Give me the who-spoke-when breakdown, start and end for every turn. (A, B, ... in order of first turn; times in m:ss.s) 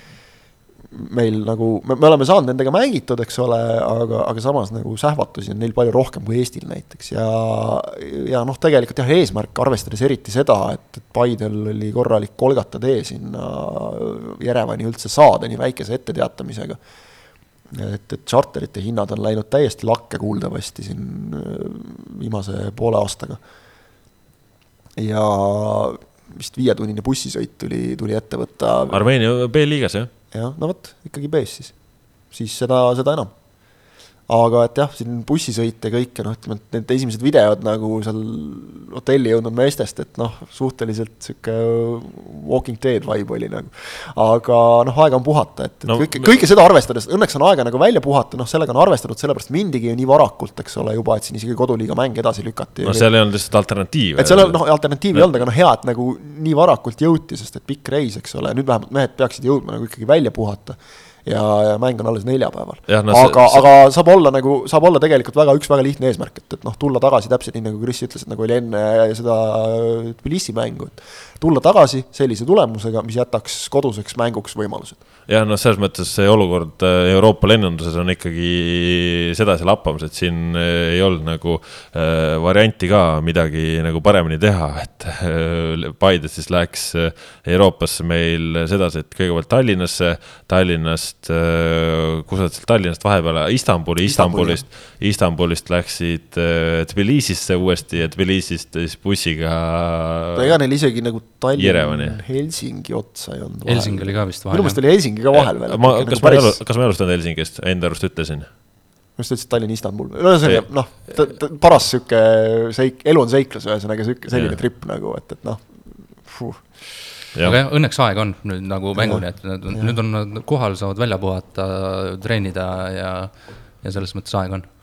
0:00.9-0:16.8 A
0:17.7-0:23.4 A
0:25.0-0:29.0 A
0:28.9-0:30.1 B
0:30.3-0:31.7 A
0:32.3-0:33.3 A
0:34.3-0:53.1 A
0:45.9-0:46.4 B
0:52.8-0:54.6 B
0:54.2-1:15.0 A
1:02.9-1:03.6 B
1:15.3-1:40.6 B
1:34.0-1:34.6 A
1:40.3-1:46.6 A
1:41.6-1:42.2 B
1:43.6-1:44.8 C
1:45.3-1:48.5 B
1:49.2-1:56.7 A
1:54.3-1:54.6 B
1:57.4-2:04.7 C
1:58.9-2:00.0 A